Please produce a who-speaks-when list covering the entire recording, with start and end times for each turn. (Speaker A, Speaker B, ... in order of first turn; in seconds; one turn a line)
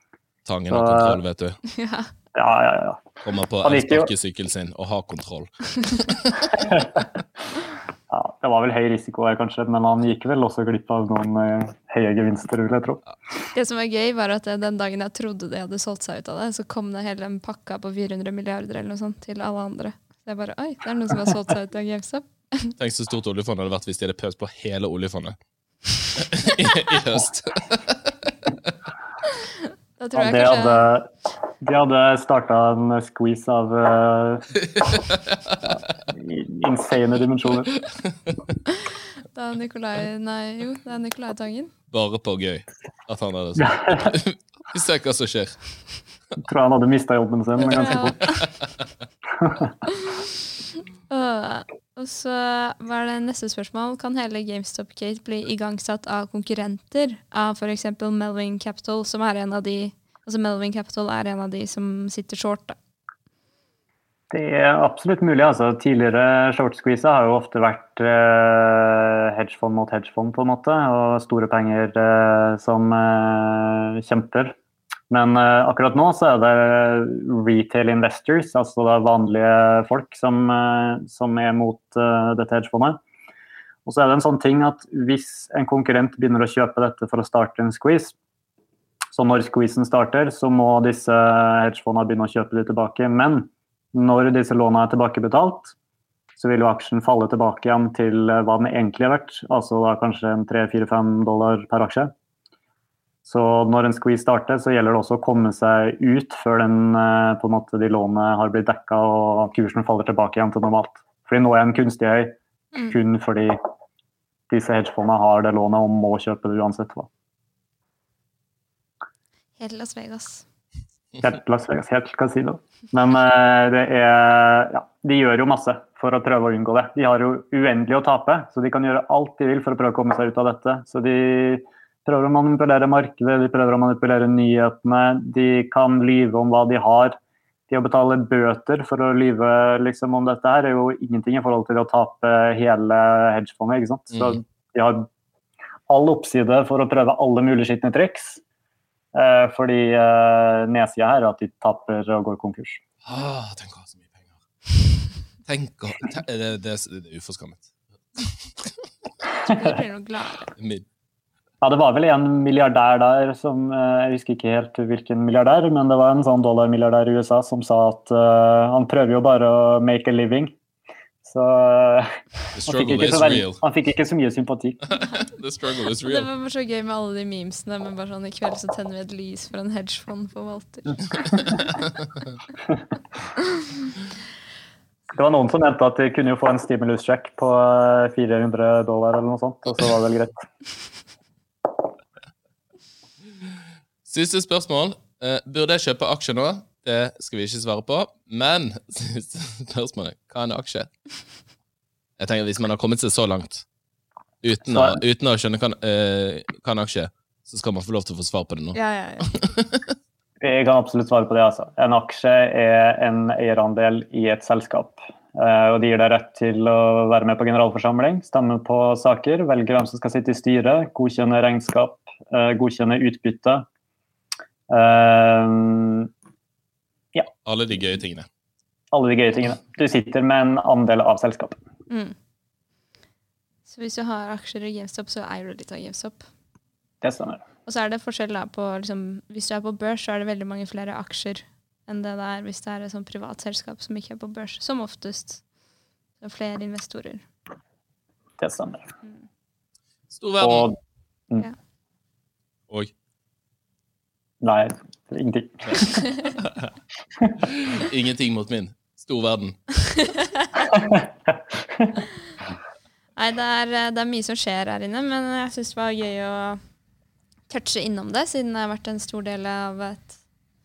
Speaker A: 0.5-1.6
Speaker B: 0.7-1.2
Speaker C: 1.7-2.1
Speaker B: 2.3-3.1
Speaker A: 3.2-6.6
Speaker B: 3.6-4.1
Speaker B: 6.6-7.0
Speaker B: 8.1-13.0
Speaker C: 13.5-22.7
Speaker A: 22.8-25.4
Speaker A: 26.1-28.5
Speaker C: 30.0-30.9
Speaker B: 30.1-31.1
Speaker B: 31.6-34.5
Speaker A: 34.7-35.8
Speaker B: 36.1-37.7
Speaker A: 38.1-38.4
Speaker C: 38.7-41.7
Speaker A: 41.9-45.6
Speaker B: 43.6-44.1
Speaker B: 46.4-48.3
Speaker C: 47.6-48.5
Speaker B: 49.4-49.7
Speaker C: 49.9-50.3
Speaker C: 51.1-62.8
Speaker B: 64.3-74.6
Speaker B: 75.1-83.0
Speaker B: 83.9-88.2
Speaker B: 89.1-95.8
Speaker B: 96.4-102.1
Speaker B: 103.2-112.4
Speaker C: 112.7-113.0
Speaker B: 112.9-113.6
Speaker B: 114.5-117.1
Speaker C: 119.6-120.4
Speaker B: 121.2-137.2
Speaker B: 137.7-145.1
Speaker A: 144.1-144.4
Speaker B: 145.9-148.4
Speaker B: 149.1-152.8
Speaker A: 153.0-154.2
Speaker A: 155.4-158.9
Speaker C: 159.4-160.5
Speaker A: 160.6-160.8
Speaker B: 161.6-170.6
Speaker B: 171.2-174.8
Speaker A: 172.6-173.6
Speaker A: 174.9-176.3
Speaker C: 176.0-181.8
Speaker B: 185.1-190.4
Speaker A: 194.1-200.9
Speaker A: 202.2-203.7
Speaker A: 204.4-209.8
Speaker B: 204.7-205.0
Speaker C: 208.7-209.3
Speaker B: 210.4-223.7
Speaker B: 224.7-226.1
Speaker A: 227.4-228.3
Speaker B: 228.9-231.6
Speaker C: 231.9-232.2
Speaker C: 233.7-236.3
Speaker B: 237.0-237.4
Speaker C: 237.7-245.4
Speaker C: 246.2-247.3
Speaker B: 248.4-248.9
Speaker A: 250.1-250.7
Speaker B: 250.4-250.8
Speaker B: 254.4-256.1
Speaker C: 255.8-256.3
Speaker A: 257.4-259.8
Speaker C: 259.9-260.5
Speaker B: 260.7-261.9
Speaker C: 263.2-266.6
Speaker C: 267.5-270.1